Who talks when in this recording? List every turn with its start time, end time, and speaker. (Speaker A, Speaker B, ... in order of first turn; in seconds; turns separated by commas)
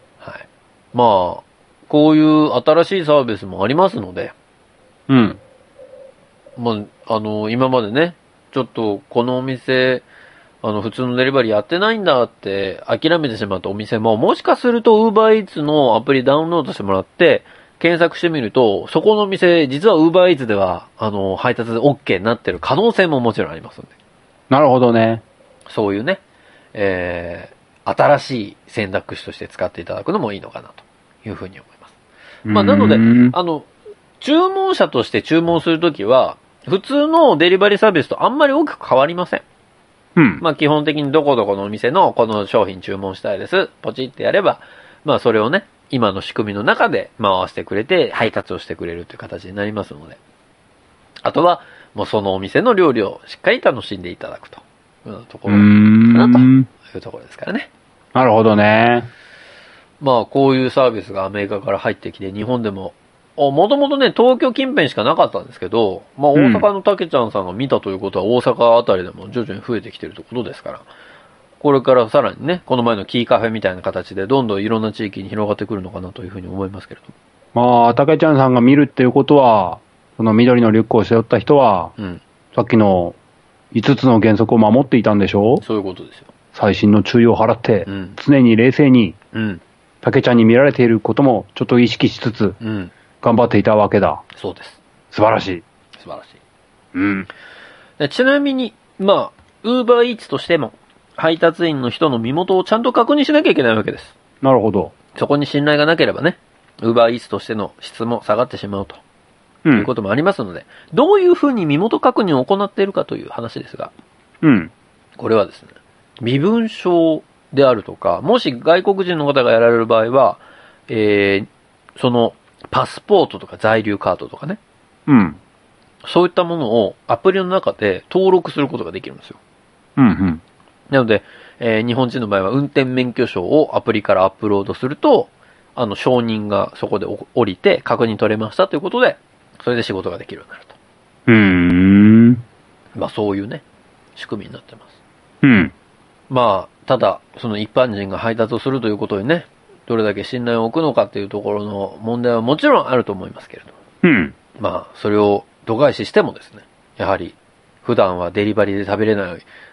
Speaker A: 0.2-4.3, Speaker B: 5.1-5.4, Speaker A: 6.6-10.0, Speaker A: 10.6-23.9, Speaker B: 24.5-25.2, Speaker A: 25.7-26.2, Speaker A: 26.7-31.9, Speaker B: 32.5-33.4, Speaker A: 32.5-33.7, Speaker A: 34.2-39.4, Speaker B: 40.2-40.4, Speaker A: 40.4-50.2, Speaker A: 51.2-57.7, Speaker B: 55.5-56.7, Speaker B: 58.1-59.1, Speaker A: 60.0-70.9, Speaker B: 66.3-66.7, Speaker A: 71.6-77.1, Speaker B: 77.5-81.9, Speaker B: 82.5-83.2, Speaker B: 83.7-85.6, Speaker A: 85.6-86.3, Speaker B: 86.5-89.2, Speaker A: 87.9-88.2, Speaker A: 89.3-89.6, Speaker B: 90.0-92.6, Speaker A: 92.6-92.9, Speaker B: 93.2-94.2, Speaker A: 94.3-94.8, Speaker B: 95.1-95.6, Speaker A: 96.0-96.4, Speaker B: 96.9-97.3, Speaker A: 98.0-104.1, Speaker B: 104.4-104.9, Speaker A: 105.1-109.0, Speaker A: 109.7-113.9, Speaker B: 114.4-114.7, Speaker A: 115.2-124.6, Speaker B: 125.1-125.4, Speaker A: 126.0-129.4, Speaker B: 130.0-130.4, Speaker A: 130.9-140.8, Speaker B: 141.3-142.4, Speaker A: 142.9-143.6, Speaker A: 144.2-144.9, Speaker B: 145.4-145.7, Speaker A: 146.3-153.7, Speaker B: 154.0-154.3, Speaker A: 154.6-159.5